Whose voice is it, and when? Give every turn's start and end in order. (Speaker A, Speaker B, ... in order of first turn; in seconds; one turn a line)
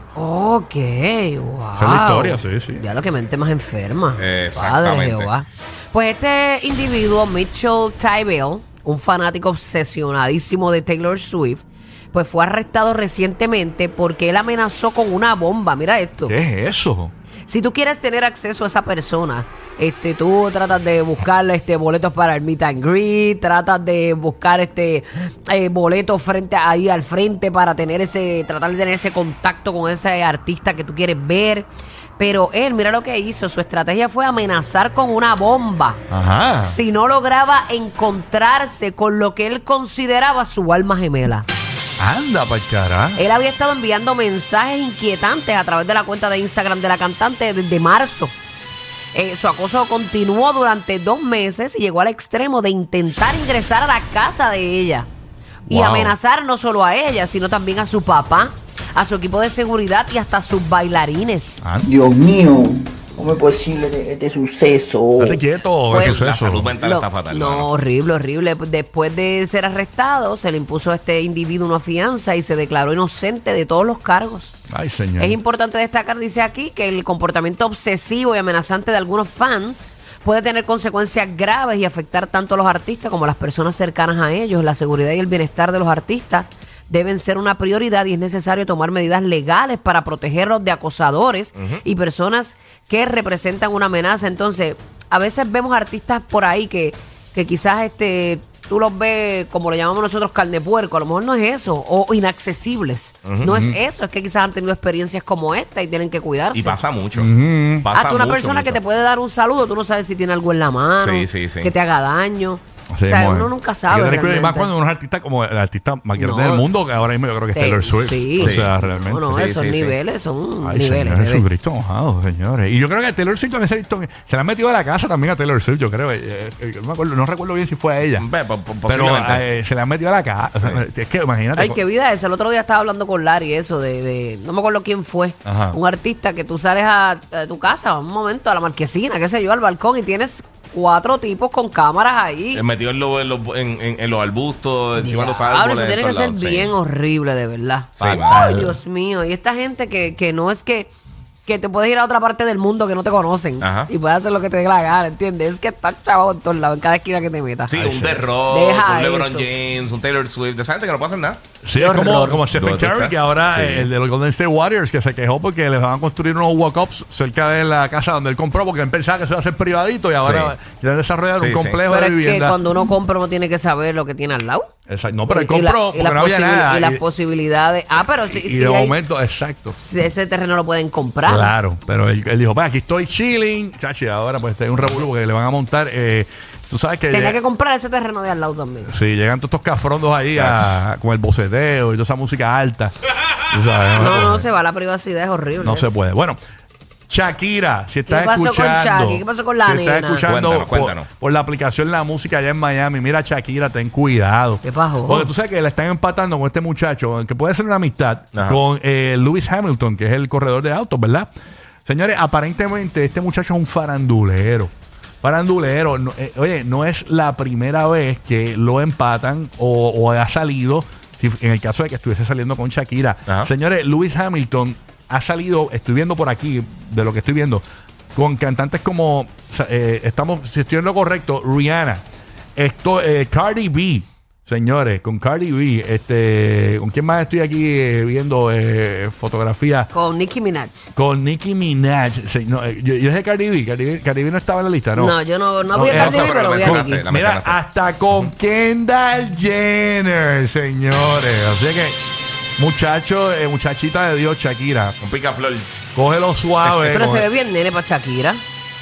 Speaker A: 0.1-16.4
Speaker B: 1.8-2.8
Speaker C: 4.2-5.3
Speaker B: 16.3-17.1
Speaker A: 17.5-36.0
Speaker B: 36.1-36.8
Speaker A: 36.6-41.5
Speaker B: 42.0-43.2
Speaker A: 43.1-48.3
Speaker A: 49.1-55.1
Speaker B: 55.7-56.1
Speaker A: 55.7-61.6
Speaker B: 61.6-61.9
Speaker D: 61.8-65.4
Speaker B: 65.2-66.7
Speaker A: 65.9-66.2
Speaker C: 65.9-67.7
Speaker A: 66.7-74.5
Speaker B: 74.7-75.4
Speaker A: 75.2-106.8
Speaker C: 91.5-91.8
Speaker B: 103.4-103.8
Speaker C: 106.5-107.3
Speaker B: 107.1-107.9
Speaker C: 107.8-108.8
Speaker A: 107.9-114.7
Speaker C: 111.0-111.7
Speaker B: 112.9-119.3
Speaker A: 116.2-116.7
Speaker A: 117.5-121.5
Speaker C: 118.4-118.7
Speaker C: 119.3-120.0
Speaker B: 120.6-128.2
Speaker C: 128.2-129.4
Speaker B: 128.8-131.8
Speaker A: 131.6-142.6
Speaker B: 135.4-135.8
Speaker C: 142.5-146.7
Speaker A: 145.0-150.9
Speaker C: 148.0-148.5
Speaker B: 148.0-148.8
Speaker A: 151.4-157.8
Speaker C: 153.6-153.9
Speaker C: 157.7-161.4
Speaker B: 157.7-158.3
Speaker A: 158.5-159.5
Speaker B: 161.6-172.6
Speaker A: 161.8-162.4
Speaker C: 162.5-163.9
Speaker C: 170.2-170.5
Speaker C: 171.4-171.8
Speaker A: 171.9-174.7
Speaker B: 174.9-177.0
Speaker A: 175.3-178.9
Speaker B: 178.3-179.8
Speaker A: 179.8-181.5
Speaker B: 181.2-187.4
Speaker A: 187.1-188.9
Speaker B: 188.8-192.9
Speaker C: 190.3-190.7
Speaker B: 193.5-194.4
Speaker A: 193.9-196.0
Speaker B: 195.6-196.4
Speaker B: 197.1-211.3
Speaker A: 198.1-200.3
Speaker C: 200.2-201.1
Speaker A: 204.6-205.3
Speaker C: 208.3-208.6
Speaker B: 211.8-227.6
Speaker B: 228.1-232.0
Speaker B: 232.6-239.9
Speaker A: 239.9-240.9
Speaker B: 240.9-245.2
Speaker A: 244.9-247.1
Speaker B: 245.7-252.0
Speaker C: 245.8-247.6
Speaker B: 252.6-254.9
Speaker C: 255.0-255.7
Speaker B: 255.9-257.3
Speaker A: 256.8-258.4